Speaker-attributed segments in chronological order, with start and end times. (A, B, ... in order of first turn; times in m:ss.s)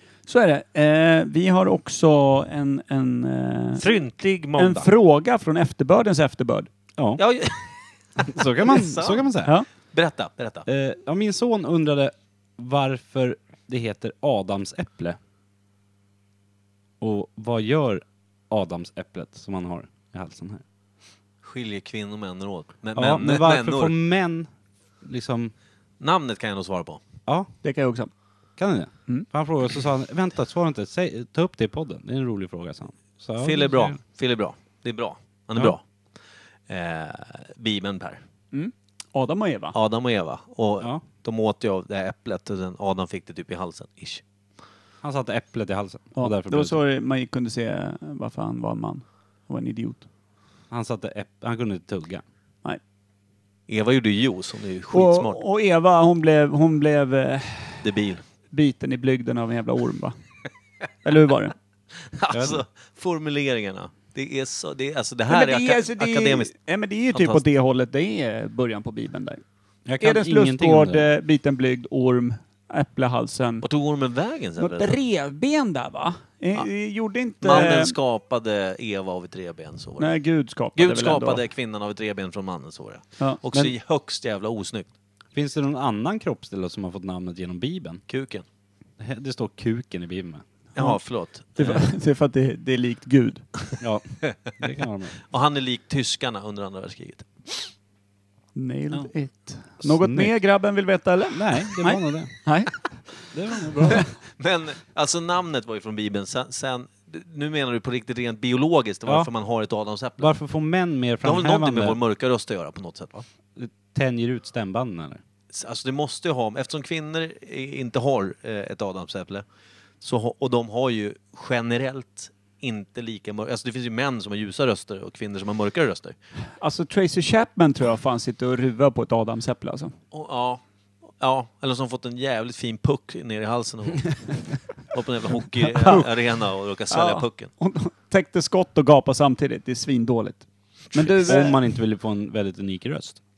0:00.3-0:03.9 A
0:03.8-0:04.9 B
0:04.6-0:06.7 A
0:07.0-0:07.2 C
0:07.2-0:09.3 B
0:08.3-0:09.5 C
0:09.9-0:10.7 B
0:10.7-0:15.2 C
0:17.0-0:20.6 C
0:21.4-0:23.9 B
0:23.0-0:24.5 C
0:25.0-0:25.5 C
0:26.0-0:27.0 B
0:27.6-0:28.1 A
0:28.6-0:34.0 C
0:33.4-0:35.8 B
0:36.7-0:38.2 B
0:38.5-0:39.8 A
0:39.7-0:44.2 B
0:45.0-0:46.8 C
0:46.2-0:50.1 A
0:50.7-0:52.2 C
0:53.7-0:55.4 B
0:54.9-0:57.9 A
0:57.8-0:58.2 B
0:58.5-1:00.2 A
1:01.0-1:01.6 A
1:02.2-1:06.5 B
1:02.3-1:02.6 C
1:05.3-1:09.4 A
1:07.1-1:07.4 B
1:09.9-1:11.1 C
1:10.0-1:13.6 A
1:13.6-1:15.0 B
1:14.6-1:18.0 A
1:17.4-1:20.1 B
1:20.0-1:21.4 A
1:20.8-1:24.9 B
1:25.3-1:28.0 C
1:28.1-1:28.4 B
1:29.0-1:30.4 C
1:30.8-1:33.4 A
1:30.8-1:31.8 B
1:33.8-1:35.2 C
1:35.3-1:37.5 B
1:38.6-1:44.0 A
1:39.8-1:40.4 C
1:41.3-1:42.4 C
1:43.3-1:44.0 C
1:44.4-1:50.3 B
1:50.2-1:52.0 C
1:51.2-1:53.3 B
1:53.6-1:55.2 C
1:55.5-1:59.4 B
2:00.0-2:06.2 B
2:06.6-2:10.0 A
2:10.1-2:10.6 B
2:11.2-2:17.5 B
2:15.6-2:16.1 A
2:16.9-2:21.6 A
2:21.2-2:23.2 C